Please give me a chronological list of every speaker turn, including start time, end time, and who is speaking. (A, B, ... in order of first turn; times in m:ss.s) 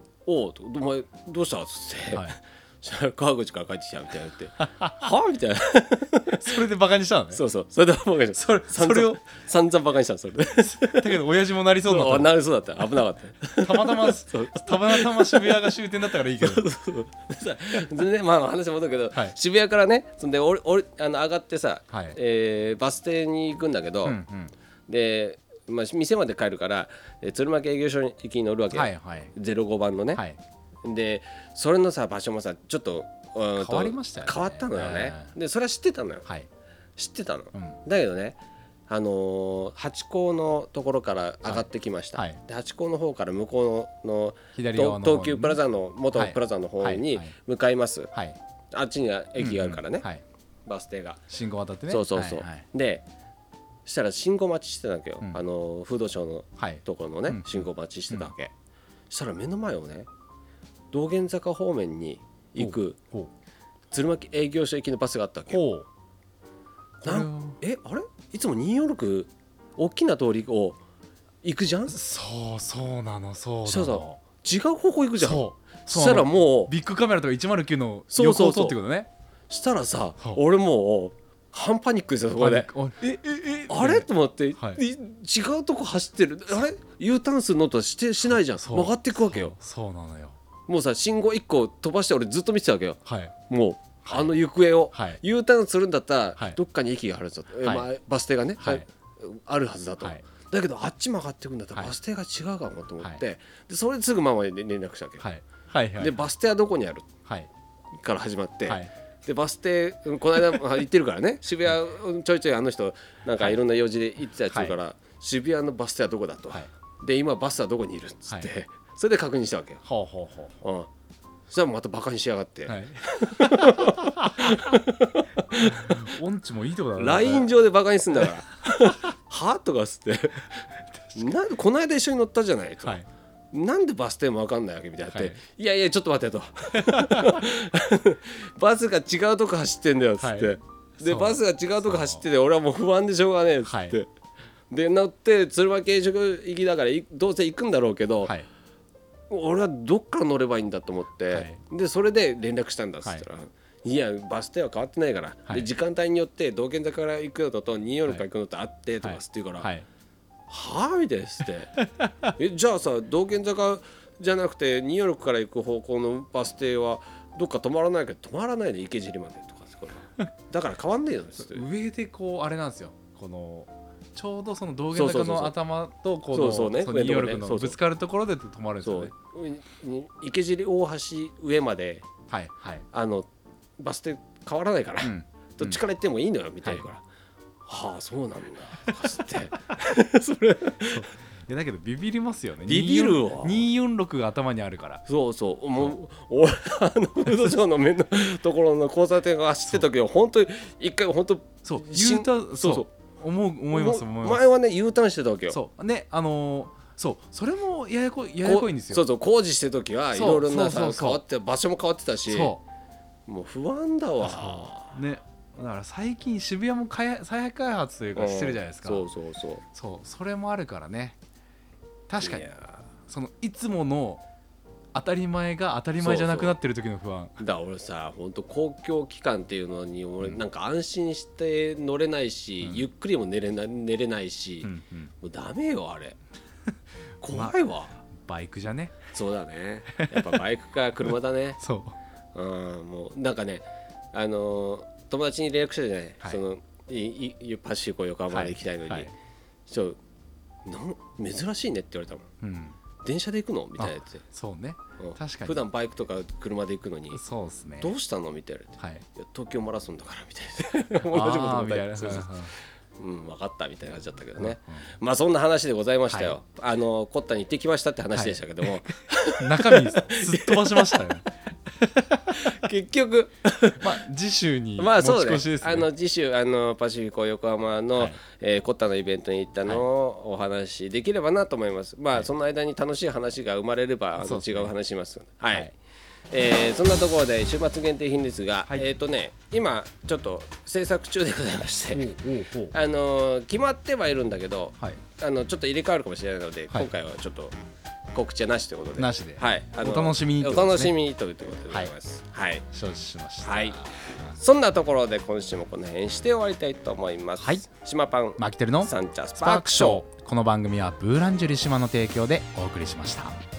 0:00.2-0:06.6 A
0:04.6-0:04.9 B
0:06.4-0:07.4 B
0:07.3-0:11.2 A
0:08.3-0:09.2 B
0:10.6-0:12.3 B
0:11.8-0:15.8 A
0:13.6-0:16.6 B
0:16.3-0:24.2 A
0:21.9-0:22.2 B
0:24.0-0:24.5 B
0:24.9-0:30.2 A
0:28.7-0:29.3 B
0:30.8-0:36.2 A
0:33.6-0:35.3 B
0:37.0-0:38.4 A
0:37.5-0:37.8 B
0:38.9-0:48.1 A
0:41.4-0:42.4 B
0:44.5-0:45.6 B
0:46.1-0:47.3 B
0:48.1-0:48.4 B
0:48.7-0:50.1 A
0:49.4-0:50.2 B
0:50.6-0:51.2 A
0:51.3-0:52.6 B
0:51.9-0:53.0 A
0:53.8-0:58.5 A
0:56.6-0:58.3 B
0:59.1-1:00.1 A
1:00.9-1:03.0 A
1:02.6-1:03.3 B
1:03.9-1:05.6 A
1:05.5-1:05.9 B
1:07.0-1:10.8 A
1:07.0-1:07.6 B
1:11.4-1:12.0 A
1:11.9-1:14.2 B
1:13.6-1:16.7 A
1:15.2-1:19.1 B
1:18.1-1:18.8 A
1:19.5-1:29.5 A
1:22.3-1:24.8 B
1:28.2-1:30.4 B
1:30.7-1:45.3 A
1:33.0-1:33.3 B
1:34.0-1:34.3 B
1:34.9-1:35.2 B
1:38.6-1:38.8 B
1:45.2-1:46.1 B
1:46.0-1:47.1 A
1:48.0-1:59.8 A
1:54.5-1:54.7 B
1:59.8-2:00.6 B
2:00.6-2:00.9 A
2:01.5-2:06.0 A
2:02.7-2:04.8 B
2:05.5-2:07.5 B
2:07.0-2:13.0 A
2:11.0-2:11.3 B
2:13.5-2:24.1 A
2:15.1-2:15.4 B
2:16.8-2:17.4 B
2:20.2-2:22.2 B
2:23.7-2:24.0 B
2:24.7-2:28.3 A
2:29.3-2:39.7 A
2:31.3-2:31.6 B
2:39.0-2:39.9 B
2:40.5-2:41.7 A
2:41.7-2:42.3 B
2:42.4-2:51.6 A
2:51.4-2:59.1 B
2:54.9-2:55.5 A
2:56.3-2:57.8 A
2:58.8-3:02.1 A
3:02.3-3:02.8 B
3:02.9-3:03.3 A
3:03.8-3:07.0 A
3:05.0-3:05.8 B
3:07.7-3:11.1 A
3:10.9-3:15.0 B
3:12.7-3:13.7 A
3:15.1-3:22.9 A
3:21.6-3:24.4 B
3:23.7-3:25.6 A
3:25.5-3:29.0 B
3:28.4-3:32.5 A
3:30.1-3:31.2 B
3:32.3-3:32.6 B
3:33.3-3:35.0 A
3:34.2-3:39.1 B
3:38.2-3:39.6 A
3:39.7-3:41.2 B
3:42.1-3:42.5 B
3:42.2-3:42.8 A
3:43.0-3:44.2 B
3:44.9-3:47.4 B
3:46.0-3:46.6 A
3:47.4-3:56.2 A
3:54.6-3:55.1 B
3:57.2-3:58.0 A
3:58.2-3:59.0 B
3:59.1-4:01.6 A
4:00.0-4:00.4 B
4:01.6-4:02.0 B
4:02.3-4:09.1 A
4:08.3-4:09.1 B
4:09.7-4:10.0 A
4:10.6-4:12.3 A
4:12.4-4:12.8 B
4:13.0-4:14.2 A
4:13.8-4:15.6 B
4:15.0-4:17.2 A
4:17.1-4:17.9 B
4:17.8-4:31.1 A
4:18.8-4:19.0 B
4:21.0-4:22.5 B
4:24.4-4:24.8 B
4:26.1-4:26.3 B
4:28.1-4:32.6 B
4:32.3-4:34.0 A
4:33.8-4:35.9 B
4:34.8-4:45.7 A
4:44.2-4:44.7 B
4:46.3-4:52.2 A
4:51.9-4:52.7 B
4:52.7-4:57.5 A
4:58.1-5:02.6 A
4:59.0-5:00.9 B
5:02.7-5:04.4 B
5:03.4-5:03.8 A
5:04.3-5:10.0 A
5:08.4-5:13.4 B